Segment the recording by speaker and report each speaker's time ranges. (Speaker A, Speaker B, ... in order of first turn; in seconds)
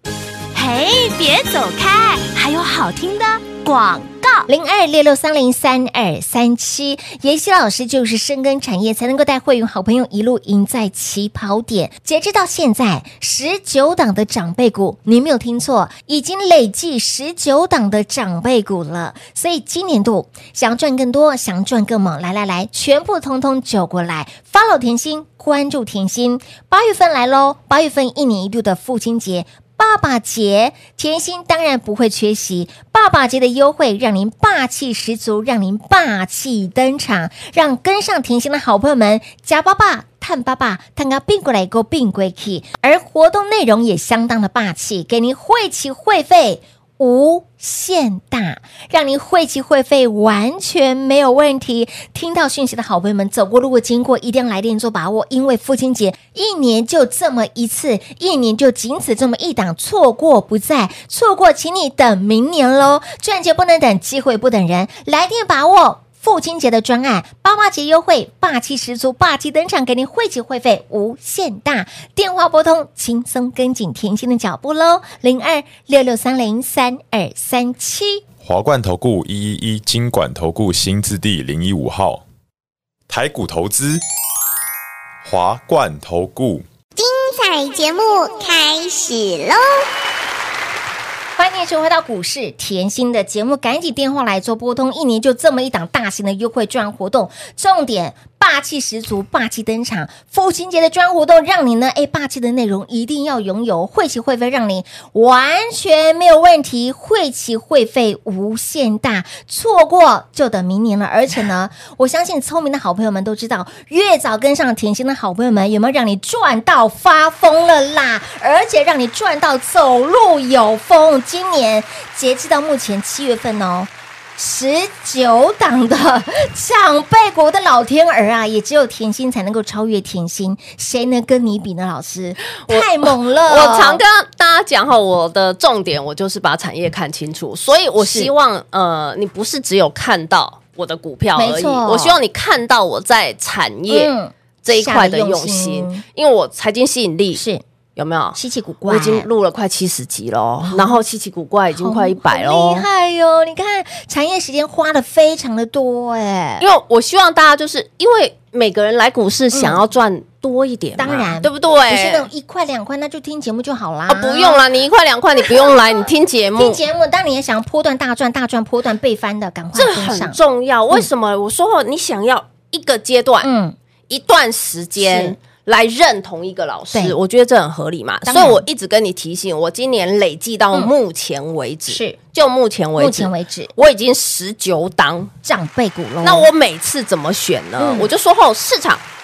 Speaker A: 0.5-4.5
Speaker B: 4.5-78.2, 91.4-134.0, 138.0-138.3, 141.3-142.2, 143.9-146.0, 147.3-147.6, 148.3-149.2, 150.6-151.0, 151.7-156.6, 159.5-159.8, 161.0-164.6, 166.5-170.4, 173.4-173.7, 175.0-175.3, 178.2-178.6, 181.9-182.2, 183.0-183.7, 185.4-186.5, 187.8-188.1
Speaker C: 78.4-82.2, 83.1-84.0, 85.2-86.7
Speaker D: 87.0-89.7
Speaker E: 132.7-144.1, 144.6-147.4, 147.9-152.9, 156.6-162.3, 164.1-166.8, 169.7-173.5, 174.1-185.3, 186.2-189.0